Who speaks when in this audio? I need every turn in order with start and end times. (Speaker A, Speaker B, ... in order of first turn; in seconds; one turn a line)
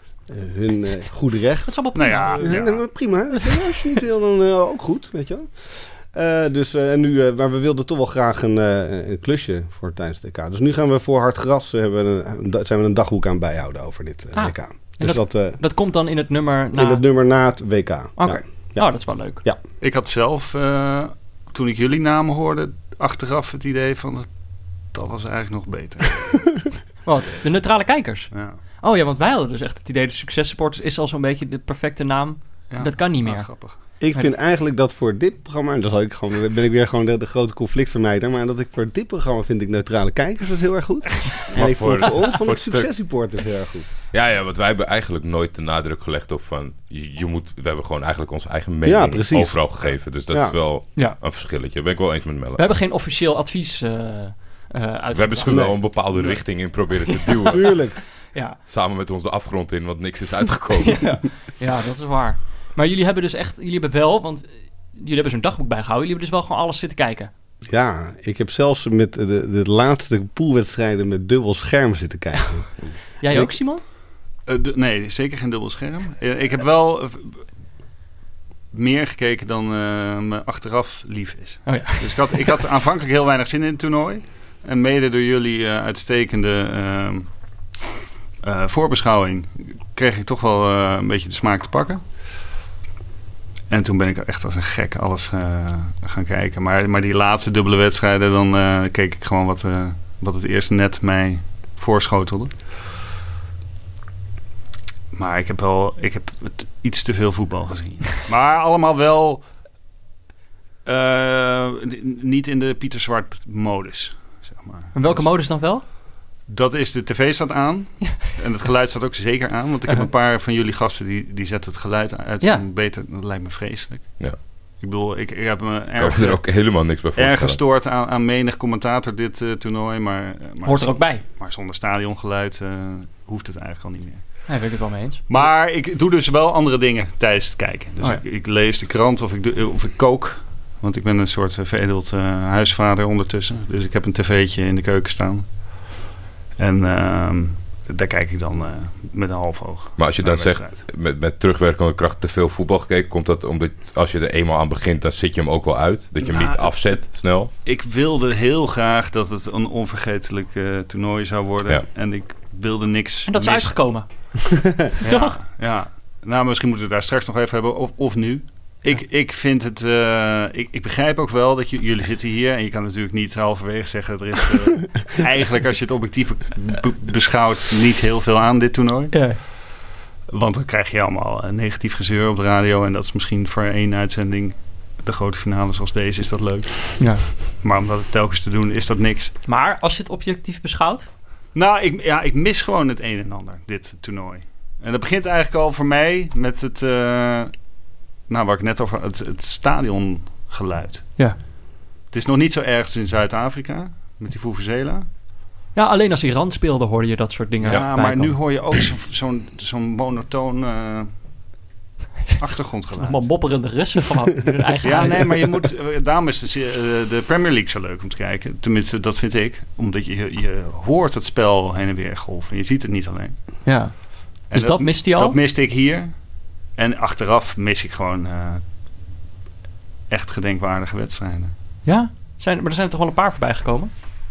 Speaker A: 0.3-15.6
Speaker B: 1.7-2.8
Speaker C: 1.9-2.8
Speaker B: 14.3-17.0
Speaker A: 16.7-19.6
Speaker B: 18.2-19.4
Speaker C: 19.8-26.5
Speaker B: 27.1-34.3
Speaker C: 28.3-28.6
Speaker C: 32.7-33.8
Speaker A: 34.0-43.9
Speaker D: 41.5-42.9
Speaker D: 44.1-52.6
Speaker A: 48.8-50.6
Speaker B: 52.6-57.7
Speaker D: 55.1-58.0
Speaker A: 55.5-55.8
Speaker A: 57.5-58.0
Speaker B: 58.3-58.6
Speaker D: 58.7-61.2
Speaker B: 60.8-67.3
Speaker A: 67.7-73.5
Speaker B: 73.2-73.8
Speaker C: 74.5-77.5
Speaker C: 78.7-87.4
Speaker B: 81.7-82.3
Speaker C: 88.4-92.0
Speaker C: 93.7-102.6
Speaker C: 105.1-109.5
Speaker C: 110.8-115.3
Speaker B: 114.9-115.8
Speaker C: 116.5-134.5
Speaker D: 126.0-127.6
Speaker B: 130.6-131.2
Speaker B: 134.5-135.2
Speaker C: 135.3-145.9
Speaker C: 146.6-150.9
Speaker D: 150.0-157.5
Speaker C: 156.2-163.9
Speaker B: 163.3-164.1
Speaker C: 165.0-179.4
Speaker B: 165.0-165.4
Speaker B: 179.1-179.4
Speaker C: 180.3-189.3
Speaker B: 187.0-187.3
Speaker B: 189.4-191.1
Speaker C: 191.5-197.6
Speaker C: 198.3-201.2
Speaker C: 202.1-205.1
Speaker B: 205.8-208.4
Speaker C: 207.7-211.1
Speaker C: 212.4-213.3
Speaker B: 213.0-215.6
Speaker C: 214.8-223.4
Speaker B: 223.7-225.4
Speaker C: 224.5-226.2
Speaker C: 226.8-228.6
Speaker C: 230.1-231.5
Speaker B: 231.8-233.9